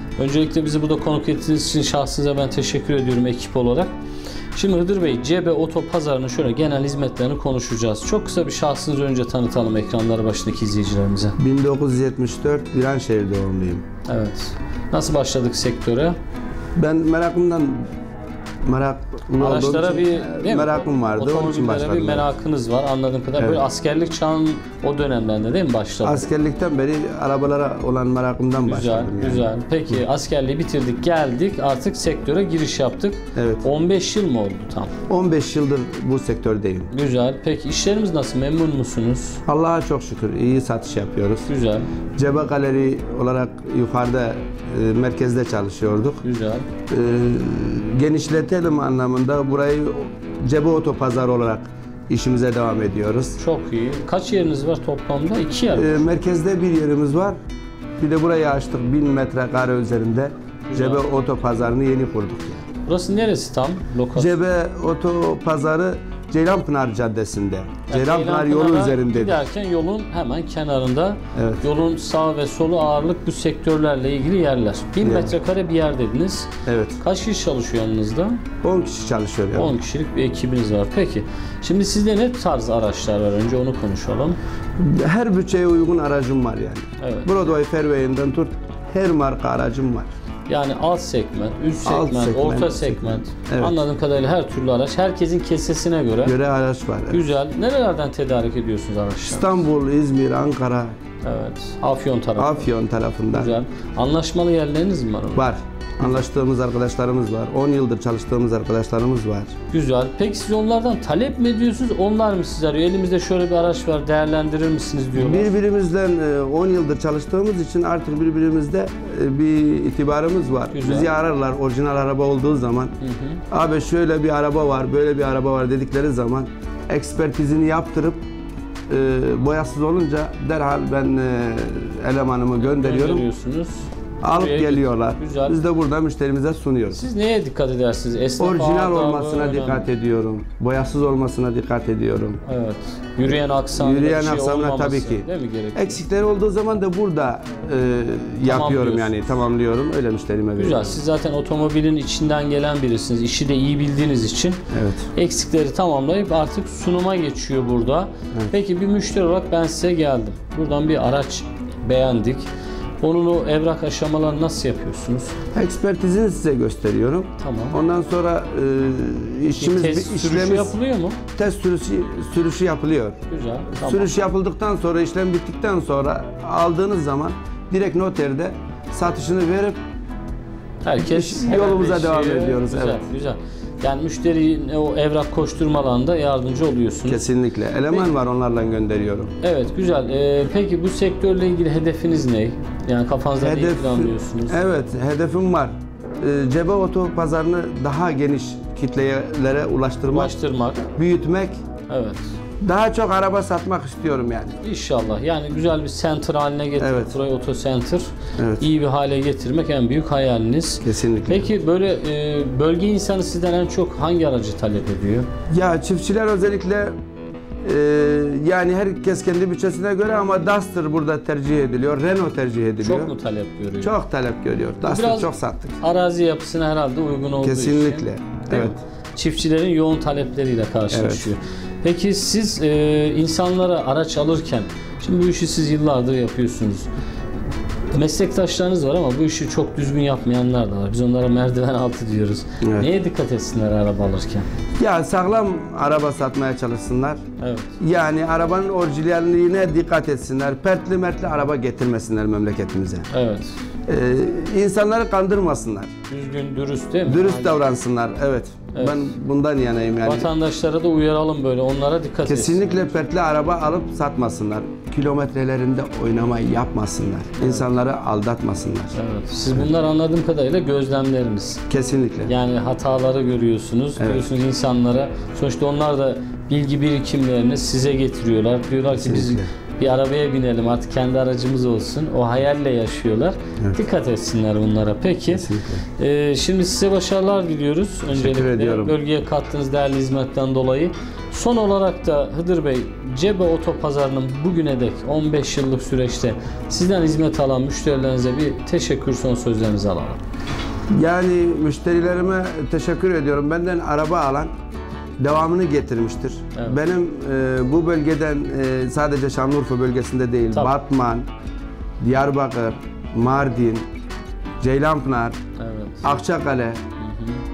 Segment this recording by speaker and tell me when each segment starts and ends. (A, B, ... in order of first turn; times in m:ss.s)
0:00.2-0:03.9 A
0:04.5-0:11.4 A
0:11.4-0:13.8 B
0:14.1-0:16.2 A
0:16.8-0:17.9 B
0:18.6-0:22.3 B
0:19.4-0:26.3 A
0:23.4-0:23.6 B
0:26.0-0:29.5 B
0:28.6-0:34.9 A
0:33.3-0:33.6 B
0:35.1-0:36.9 B
0:36.9-0:39.4 A
0:39.5-0:41.5 B
0:41.5-0:41.9 A
0:42.2-0:46.2 B
0:46.2-0:46.7 A
0:46.9-0:53.4 B
0:53.4-0:56.0 A
0:55.7-0:57.4 B
0:58.0-1:02.6 B
1:00.7-1:01.0 A
1:02.8-1:04.4 A
1:04.2-1:09.4 B
1:07.9-1:18.4 A
1:11.3-1:11.6 B
1:15.0-1:15.4 B
1:16.6-1:17.0 B
1:18.6-1:19.8 B
1:19.5-1:24.4 A
1:24.8-1:30.1 B
1:27.0-1:27.3 A
1:30.5-1:36.4 A
1:31.8-1:33.8 B
1:36.2-1:37.3 B
1:37.1-1:39.6 A
1:39.3-1:41.0 B
1:41.2-1:42.7 A
1:42.4-1:43.6 B
1:43.3-1:45.5 A
1:45.3-1:49.5 B
1:49.7-1:55.5 A
1:55.2-2:02.9 B
2:00.7-2:01.1 A
2:03.0-2:03.4 A
2:03.5-2:08.2 B
2:08.9-2:13.2 B
2:12.6-2:15.6 A
2:14.2-2:17.0 B
2:16.9-2:19.9 A
2:18.4-2:22.4 B
2:22.4-2:26.0 A
2:23.8-2:31.0 B
2:28.4-2:29.2 A
2:30.6-2:34.6 A
2:34.7-2:35.1 B
2:35.1-2:42.4 A
2:43.0-2:45.3 A
2:45.5-2:50.7 B
2:47.4-2:47.8 A
2:49.6-2:51.2 A
2:51.4-2:53.2 B
2:53.3-2:54.1 A
2:53.7-2:59.8 B
3:00.8-3:07.2 A
3:01.0-3:03.1 B
3:07.0-3:09.3 B
3:09.4-3:14.7 A
3:13.4-3:20.3 B
3:20.1-3:20.8 A
3:21.0-3:21.6 B
3:21.9-3:22.2 A
3:22.6-3:24.6 B
3:24.6-3:28.1 A
3:26.8-3:27.2 B
3:28.4-3:28.7 B
3:28.6-3:35.3 A
3:30.8-3:31.5 B
3:35.5-3:36.9 B
3:37.6-3:43.1 B
3:42.8-3:43.9 A
3:43.8-3:45.8 B
3:44.8-3:56.9 A
3:47.4-3:48.8 B
3:50.9-3:51.3 B
3:57.9-4:04.5 A
4:02.6-4:02.9 B
4:04.8-4:07.2 B
4:07.4-4:07.7 A
4:07.8-4:13.1 B
4:13.1-4:13.5 A
4:13.9-4:15.9 B
4:16.1-4:17.6 A
4:17.0-4:20.3 B
4:18.7-4:19.1 A
4:20.0-4:22.8 A
4:22.2-4:28.9 B
4:27.4-4:27.6 A
4:28.9-4:31.6 A
4:31.7-4:32.3 B
4:32.3-5:00.2 A
4:34.0-4:34.3 B
4:38.9-4:39.5 B
4:45.3-4:45.8 B
4:48.1-4:49.0 B
5:00.9-5:04.5 B
5:05.2-5:11.3 B
5:12.0-5:13.9 B
5:14.6-5:15.4 B
5:15.6-5:16.2 A
5:16.0-5:16.8 B
5:17.0-5:17.4 A